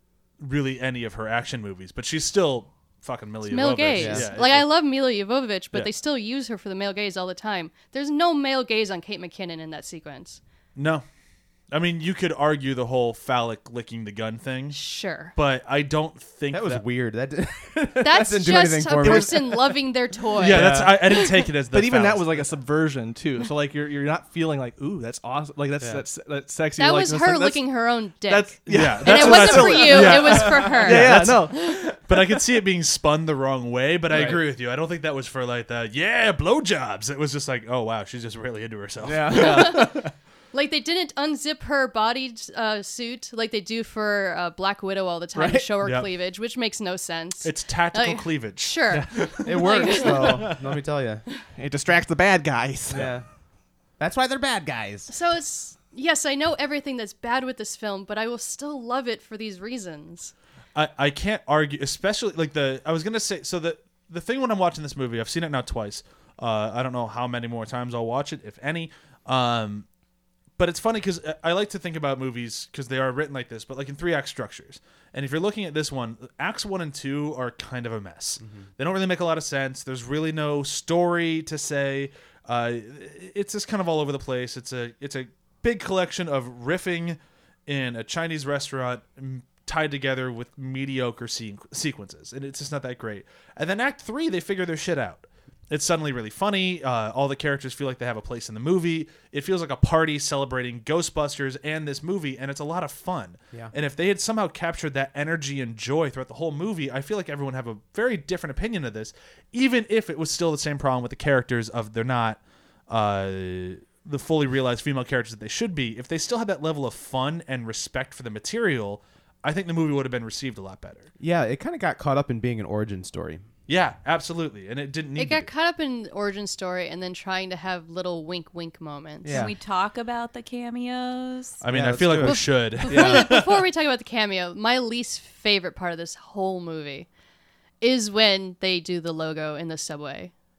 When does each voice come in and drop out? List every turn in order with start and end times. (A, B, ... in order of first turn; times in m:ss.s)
0:00.4-0:04.7 A
0:03.5-0:10.4 B
0:04.0-0:04.3 C
0:10.8-0:11.0 A
0:11.7-0:16.8 A
0:14.7-0:15.3 B
0:16.5-0:19.8 C
0:18.0-0:21.3 B
0:18.9-0:19.6 D
0:20.4-0:22.4 A
0:20.5-0:20.9 C
0:20.5-0:21.0 D
0:21.7-0:31.8 D
0:26.8-0:31.8 B
0:28.7-0:40.1 A
0:34.1-0:34.4 D
0:39.1-0:39.9 D
0:39.1-0:39.5 C
0:39.3-0:40.0 B
0:40.5-0:50.5 B
0:45.4-0:45.7 D
0:45.8-0:46.1 A
0:47.4-0:50.6 A
0:48.9-0:49.3 D
0:49.4-0:51.2 C
0:51.6-0:53.2 D
0:52.9-0:53.2 C
0:54.0-0:55.1 C
0:55.1-1:00.3 B
1:00.8-1:09.9 A
1:10.6-2:01.1 A
2:01.2-2:03.4 C
2:03.7-2:05.5 A
2:05.2-2:09.5 B
2:09.2-2:09.5 C
2:09.3-2:11.6 E
2:11.6-2:13.6 A
2:11.7-2:13.2 C
2:12.2-2:17.1 B
2:12.9-2:13.2 D
2:17.8-2:20.3 B